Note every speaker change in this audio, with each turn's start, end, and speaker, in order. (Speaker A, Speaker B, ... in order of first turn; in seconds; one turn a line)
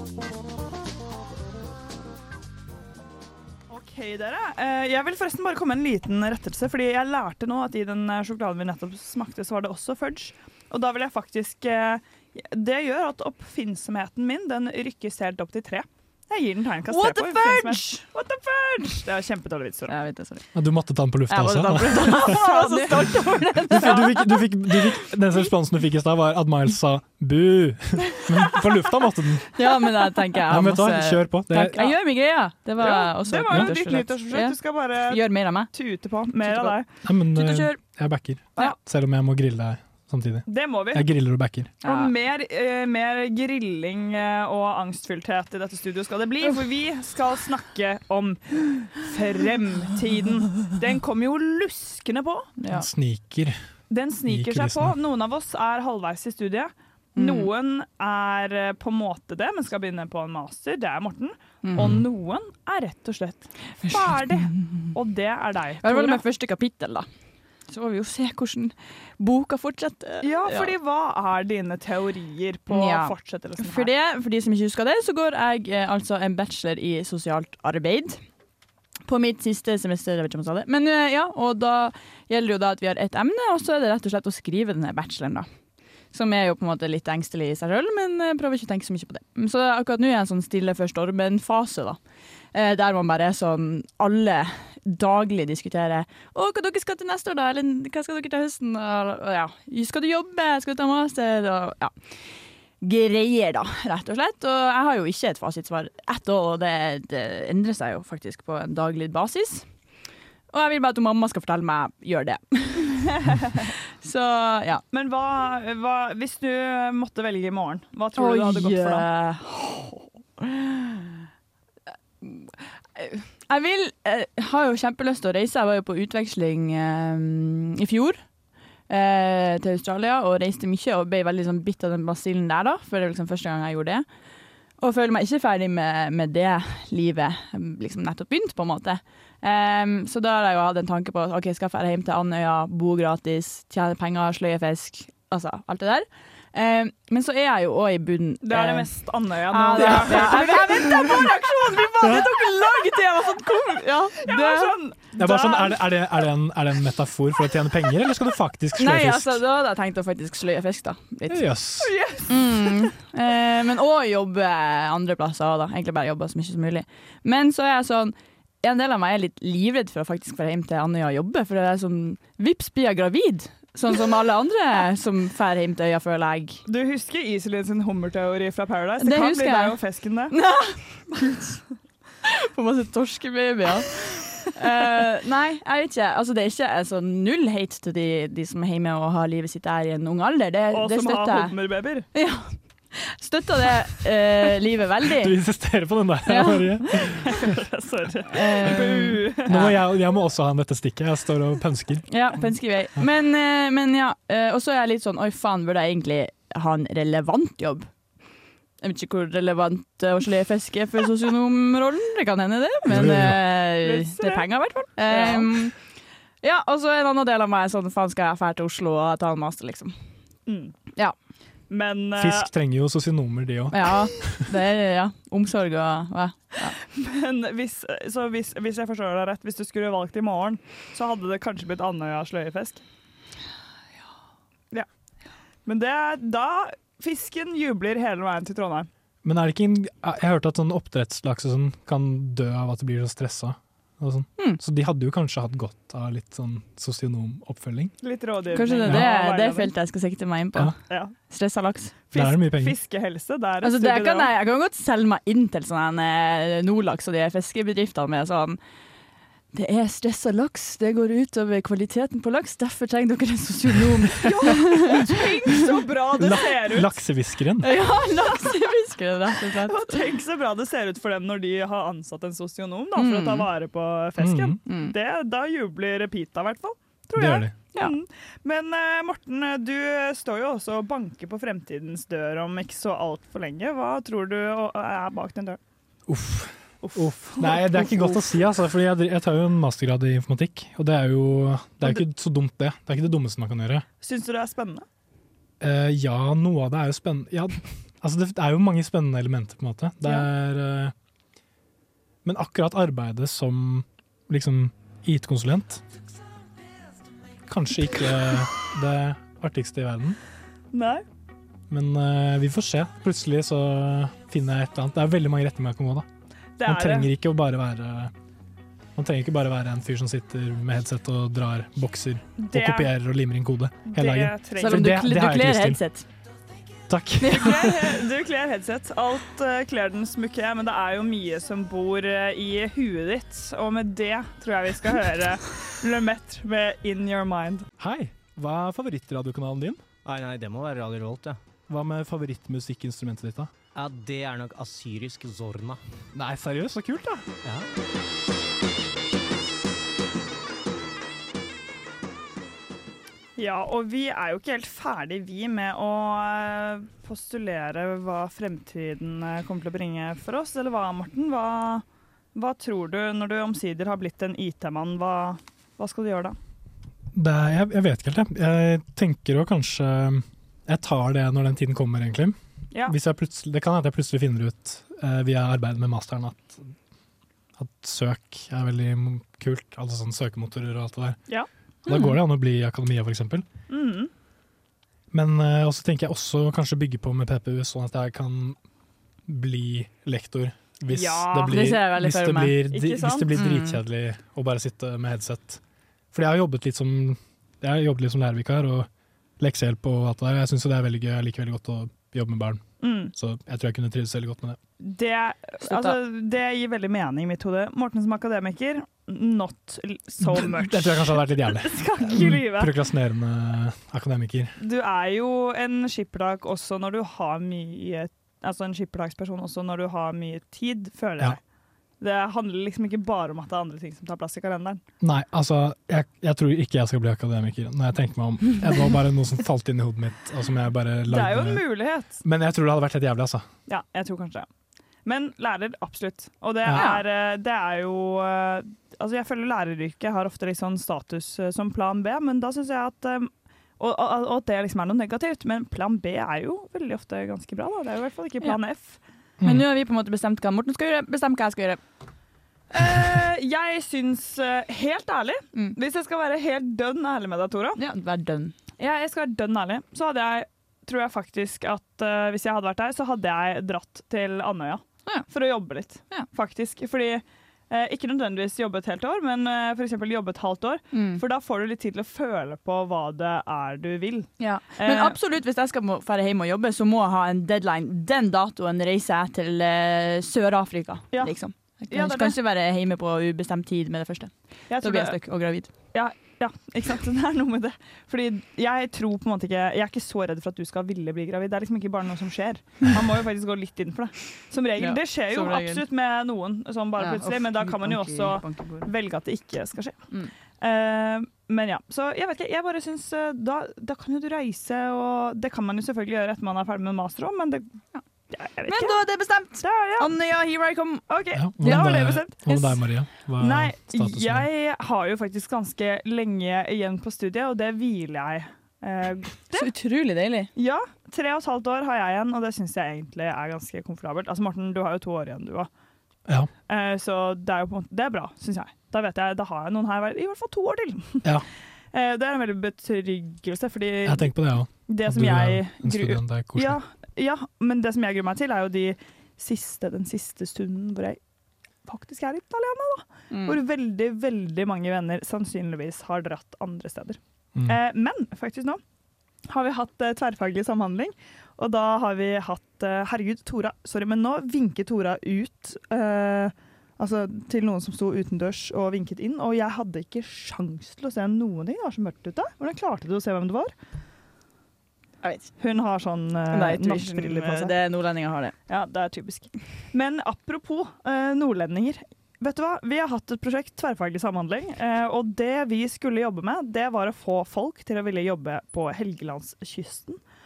Speaker A: 3.7-19.9
Speaker B: 16.9-18.0
Speaker B: 19.9-20.4
Speaker C: 20.5-22.4
Speaker B: 21.3-24.8
Speaker A: 22.0-23.9
Speaker C: 23.7-29.6
Speaker B: 29.5-35.7
Speaker C: 30.5-32.0
Speaker A: 32.8-36.9
Speaker B: 36.4-36.8
Speaker C: 37.0-41.7
Speaker B: 37.3-37.8
Speaker A: 40.5-41.1
Speaker A: 41.8-52.5
Speaker B: 41.8-42.1
Speaker B: 52.6-52.9
Speaker C: 52.7-53.5
Speaker A: 53.9-66.2
Speaker C: 54.3-55.0
Speaker B: 57.1-57.5
Speaker B: 61.6-61.9
Speaker C: 61.8-62.0
Speaker B: 63.8-64.9
Speaker B: 65.8-67.1
Speaker B: 67.7-70.7
Speaker A: 70.2-73.9
Speaker B: 72.7-78.2
Speaker B: 79.1-85.5
Speaker B: 86.1-92.0
Speaker B: 92.5-101.9
Speaker B: 102.8-109.7
Speaker B: 110.5-114.8
Speaker A: 113.2-113.7
Speaker A: 114.9-119.1
Speaker B: 118.2-121.2
Speaker B: 122.2-128.2
Speaker B: 128.9-134.1
Speaker B: 134.8-148.9
Speaker A: 148.4-152.2
Speaker B: 149.5-154.8
Speaker C: 152.0-152.3
Speaker A: 154.2-156.0
Speaker C: 155.2-159.4
Speaker B: 158.8-161.4
Speaker C: 161.3-161.9
Speaker A: 161.8-162.9
Speaker B: 162.3-176.6
Speaker A: 176.7-180.3
Speaker B: 179.0-179.8
Speaker B: 180.3-181.4
Speaker B: 182.2-191.5
Speaker A: 190.7-192.1
Speaker B: 192.1-195.3
Speaker C: 195.1-197.4
Speaker B: 196.3-196.8
Speaker A: 197.2-199.7
Speaker B: 198.3-199.7
Speaker C: 199.5-202.1
Speaker B: 202.1-207.9
Speaker B: 208.8-215.7
Speaker C: 212.8-213.4
Speaker A: 213.8-214.5
Speaker A: 215.0-215.5
Speaker B: 216.4-219.9
Speaker A: 220.5-220.7
Speaker A: 221.7-222.5
Speaker C: 222.2-224.4
Speaker B: 223.7-226.8
Speaker A: 226.8-232.8
Speaker A: 235.7-238.9
Speaker C: 239.2-247.9
Speaker A: 248.0-249.7
Speaker B: 248.5-250.7
Speaker A: 250.9-251.1
Speaker B: 251.3-251.9
Speaker A: 252.1-254.3
Speaker C: 252.1-252.7
Speaker B: 253.6-258.6
Speaker B: 259.5-265.2
Speaker A: 264.2-266.9
Speaker C: 266.2-267.8
Speaker B: 267.6-270.0
Speaker A: 269.6-285.6
Speaker B: 272.9-273.5
Speaker C: 274.2-274.6
Speaker B: 274.6-274.9
Speaker C: 277.1-277.5
Speaker C: 286.1-293.9
Speaker A: 286.8-288.2
Speaker A: 294.0-294.8
Speaker C: 295.6-300.9
Speaker C: 302.2-305.8
Speaker C: 307.5-310.2
Speaker A: 310.7-311.0
Speaker C: 311.7-316.1
Speaker A: 316.6-317.1
Speaker C: 316.6-318.1
Speaker C: 318.9-325.8
Speaker A: 322.4-322.9
Speaker A: 323.9-324.9
Speaker B: 324.6-326.1
Speaker C: 326.9-328.0
Speaker A: 327.2-337.7
Speaker C: 337.8-339.8
Speaker D: 340.0-341.4
Speaker C: 341.7-343.5
Speaker D: 343.7-345.8
Speaker C: 346.1-347.2
Speaker A: 353.4-361.8
Speaker A: 362.3-366.4
Speaker C: 367.1-376.7
Speaker C: 377.6-381.2
Speaker C: 381.9-383.4
Speaker B: 381.9-382.1
Speaker A: 383.7-384.1
Speaker C: 385.1-388.6
Speaker C: 389.3-395.6
Speaker A: 390.9-391.6
Speaker B: 391.5-392.6
Speaker A: 392.7-393.3
Speaker B: 393.3-393.8
Speaker C: 396.1-398.9
Speaker C: 399.4-404.6
Speaker A: 402.8-403.1
Speaker A: 404.8-412.8
Speaker B: 405.6-405.9
Speaker C: 410.2-414.5
Speaker A: 414.6-421.4
Speaker A: 422.0-424.8
Speaker C: 425.0-431.6
Speaker A: 431.1-432.2
Speaker C: 432.2-433.4
Speaker A: 433.7-434.4
Speaker A: 435.0-449.0
Speaker B: 436.7-437.0
Speaker B: 449.4-451.8
Speaker A: 452.7-457.8
Speaker B: 457.8-458.5
Speaker A: 458.8-475.2
Speaker B: 470.9-471.2
Speaker B: 474.4-485.7
Speaker A: 481.9-482.4
Speaker A: 484.7-485.2
Speaker A: 485.9-500.0
Speaker B: 494.8-495.8
Speaker B: 497.0-498.9
Speaker A: 500.6-507.7
Speaker A: 508.3-509.0
Speaker B: 508.7-511.0
Speaker A: 509.6-510.1
Speaker A: 511.1-512.6
Speaker C: 511.3-514.5
Speaker B: 511.6-511.9
Speaker A: 513.4-519.7
Speaker B: 519.5-520.5
Speaker A: 520.5-525.7
Speaker A: 526.7-531.3
Speaker A: 531.9-534.3
Speaker C: 534.0-536.8
Speaker A: 534.9-541.2
Speaker A: 541.9-548.8
Speaker B: 543.3-543.6
Speaker A: 549.5-563.7
Speaker B: 565.2-565.5
Speaker A: 565.6-567.7
Speaker B: 566.5-568.5
Speaker A: 568.7-580.2